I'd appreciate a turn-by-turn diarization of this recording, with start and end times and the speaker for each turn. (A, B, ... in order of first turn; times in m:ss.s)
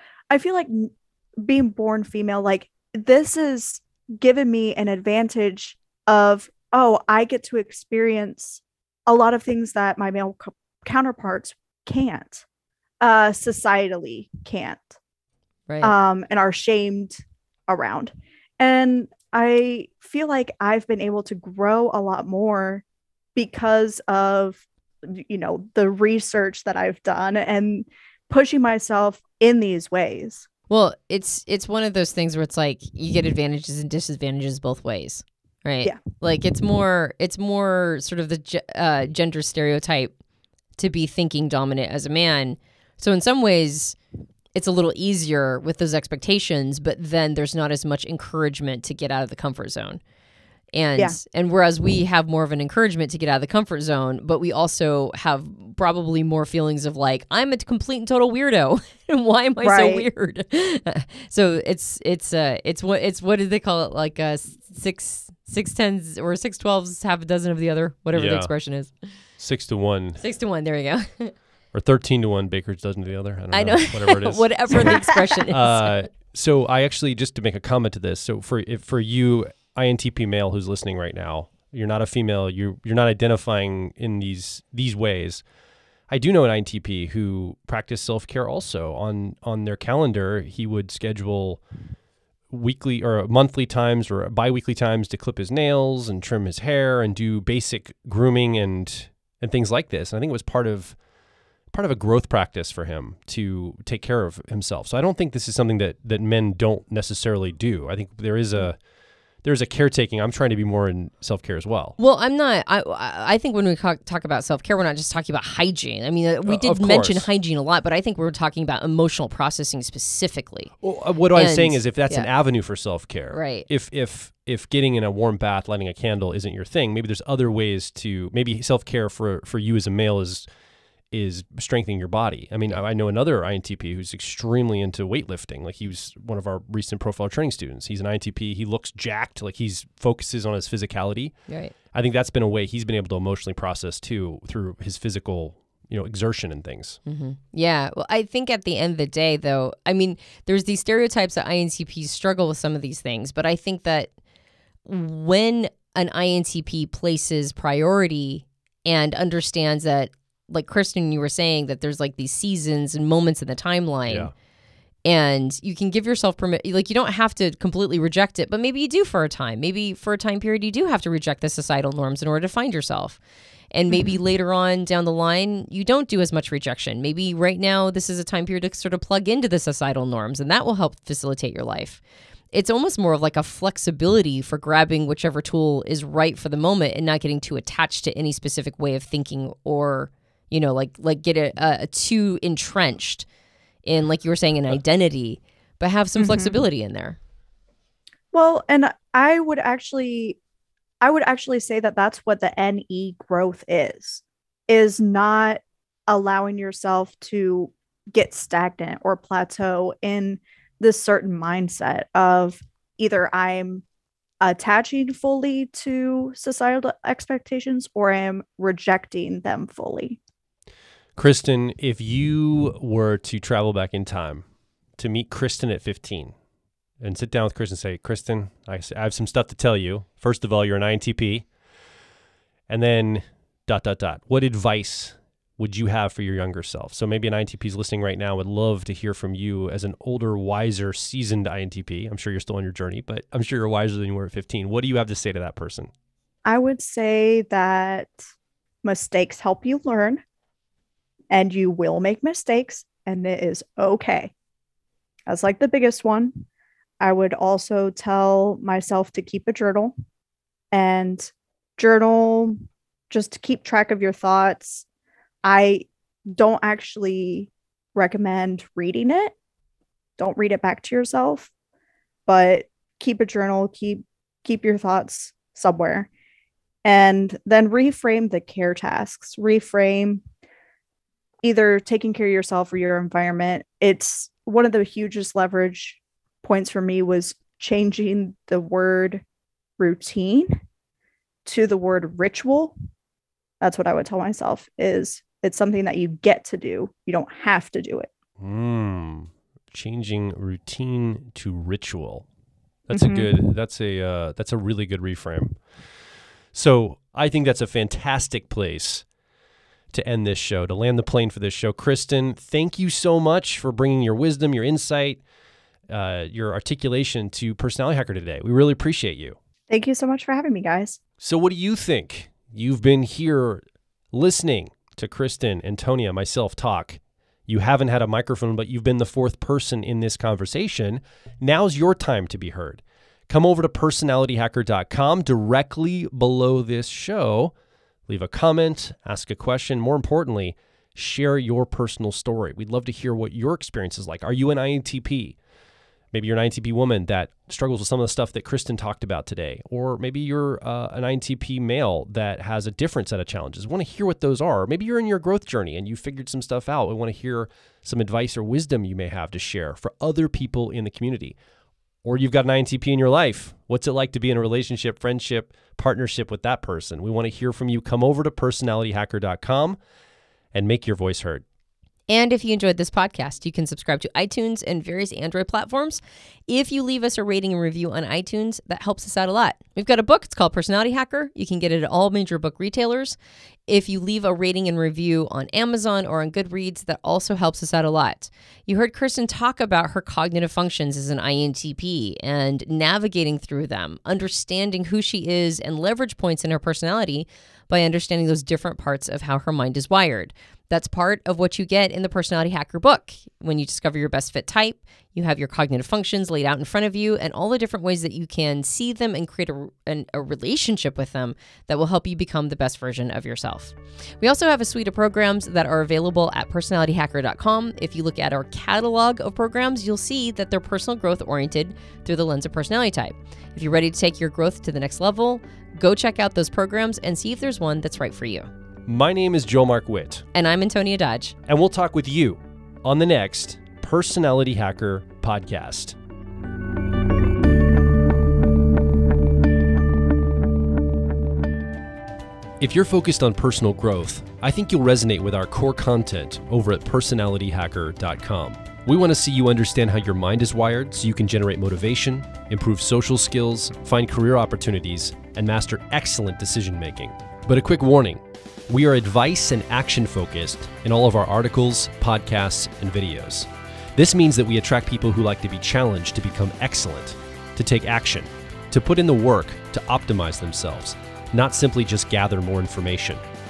0:00.3-0:12.4 A
0:13.0-0:14.9 A
0:15.7-0:15.9 B
0:15.8-0:22.8 A
0:23.3-0:30.5 A
0:30.7-0:40.1 B
0:40.8-0:44.0 B
0:44.5-0:50.0 B
0:50.7-1:09.1 B
0:59.6-1:00.1 A
1:08.1-1:08.5 C
1:09.4-1:10.2 C
1:10.2-1:11.3 B
1:11.7-1:25.4 C
1:13.5-1:15.9 B
1:26.1-1:31.6 C
1:32.5-1:41.0 C
1:41.7-1:48.8 C
1:49.4-1:52.0 C
1:52.0-2:00.7 B
1:56.4-1:57.3 C
2:00.8-2:10.4 C
2:01.3-2:02.3 B
2:03.3-2:03.7 B
2:11.1-2:27.0 C
2:21.5-2:21.7 B
2:27.0-2:34.1 B
2:34.8-2:44.3 B
2:44.1-2:44.3 C
2:45.0-2:53.2 B
2:53.7-3:02.0 B
2:53.9-2:54.2 A
3:02.5-3:13.3 B
3:13.8-3:17.2 B
3:16.2-3:16.6 A
3:18.3-3:20.4 A
3:21.0-3:33.8 A
3:34.4-3:40.2 A
3:41.2-3:44.4 C
3:45.0-3:46.3 C
3:47.0-3:51.5 C
3:52.7-4:05.9 C
4:06.4-4:08.2 A
4:08.8-4:10.2 A
4:11.3-4:14.3 A
4:15.3-4:16.4 A
4:17.0-4:19.9 A
4:20.7-4:24.8 A
4:25.4-4:29.3 A
4:30.2-4:31.5 A
4:32.3-4:36.1 A
4:36.8-4:40.2 A
4:41.4-4:49.2 A
4:49.8-4:50.5 A
4:51.4-4:52.7 A
4:53.6-4:58.1 A
4:58.4-5:02.2 C
5:02.9-5:05.6 C
5:02.9-5:03.3 A
5:06.5-5:09.0 C
5:09.9-5:15.2 C
5:15.9-5:19.4 C
5:19.7-5:21.0 A
5:21.2-5:23.6 C
5:24.1-5:37.5 C
5:38.1-5:45.4 C
5:46.1-6:01.4 C
6:02.0-6:09.8 C
6:10.5-6:11.4 C
6:12.1-7:08.5 B
7:08.9-7:10.2 C
7:10.3-7:11.4 B
7:11.5-7:16.0 C
7:22.6-7:53.2 C